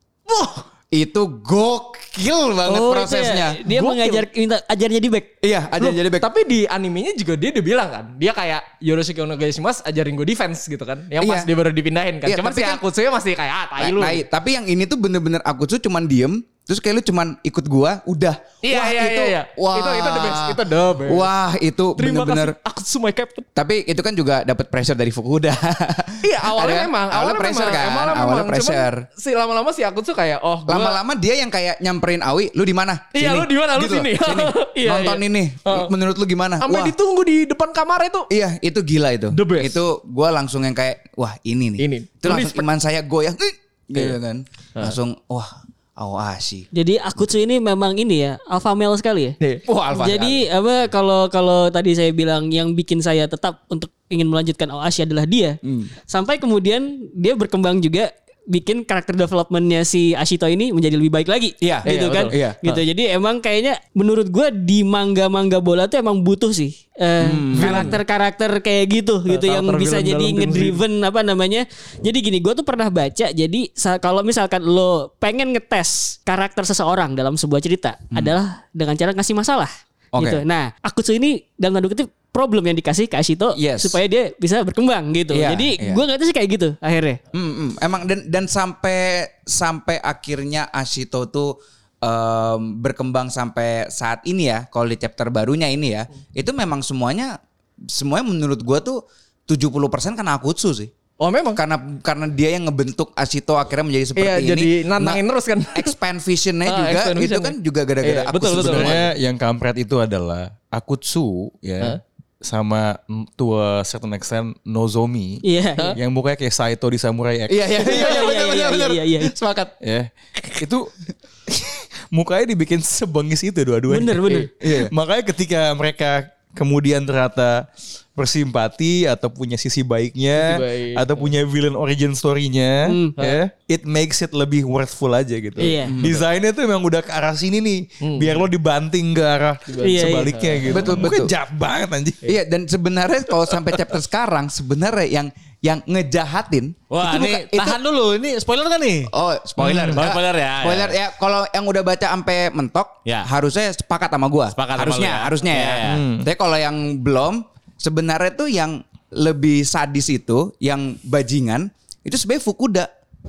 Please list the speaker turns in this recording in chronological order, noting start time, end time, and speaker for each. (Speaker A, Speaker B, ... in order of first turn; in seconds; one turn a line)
Speaker A: 0.3-0.6
Speaker B: 0.9-3.6
Speaker C: 2.7-5.3
Speaker A: 3.7-4.2
Speaker B: 5.4-6.3
Speaker A: 5.8-14.2
Speaker B: 11.2-11.5
Speaker B: 12.2-12.8
Speaker B: 13.8-22.5
Speaker A: 18.6-21.3
Speaker A: 22.0-23.5
Speaker B: 23.6-29.0
Speaker A: 26.2-31.0
Speaker B: 30.7-36.9
Speaker A: 33.1-35.9
Speaker A: 36.6-38.3
Speaker B: 38.3-46.7
Speaker A: 39.3-39.8
Speaker A: 41.8-42.7
Speaker C: 46.7-49.4
Speaker B: 49.7-50.5
Speaker C: 49.9-55.6
Speaker B: 55.6-55.9
Speaker C: 56.1-87.2
Speaker B: 61.6-62.6
Speaker A: 61.9-62.5
Speaker B: 67.2-68.0
Speaker A: 67.6-68.0
Speaker A: 69.3-70.8
Speaker B: 80.2-80.4
Speaker B: 83.5-84.0
Speaker B: 85.3-86.0
Speaker B: 87.3-97.4
Speaker B: 97.9-100.9
Speaker A: 101.2-101.6
Speaker B: 101.5-105.2
Speaker A: 104.2-106.0
Speaker B: 105.8-109.1
Speaker A: 106.7-109.0
Speaker D: 108.5-117.8
Speaker C: 115.4-116.0
Speaker B: 117.5-119.7
Speaker C: 117.8-119.3
Speaker D: 119.8-120.9
Speaker D: 121.5-142.2
Speaker C: 123.9-124.5
Speaker B: 124.6-124.9
Speaker A: 130.4-131.3
Speaker C: 132.8-133.2
Speaker C: 135.6-136.0
Speaker B: 135.9-136.2
Speaker A: 138.0-138.4
Speaker A: 139.7-141.0
Speaker C: 139.8-140.4
Speaker B: 140.7-141.3
Speaker B: 142.2-147.8
Speaker E: 146.9-149.1
Speaker B: 149.1-162.9
Speaker D: 149.6-150.0
Speaker E: 149.9-151.0
Speaker E: 154.5-156.0
Speaker D: 155.8-156.3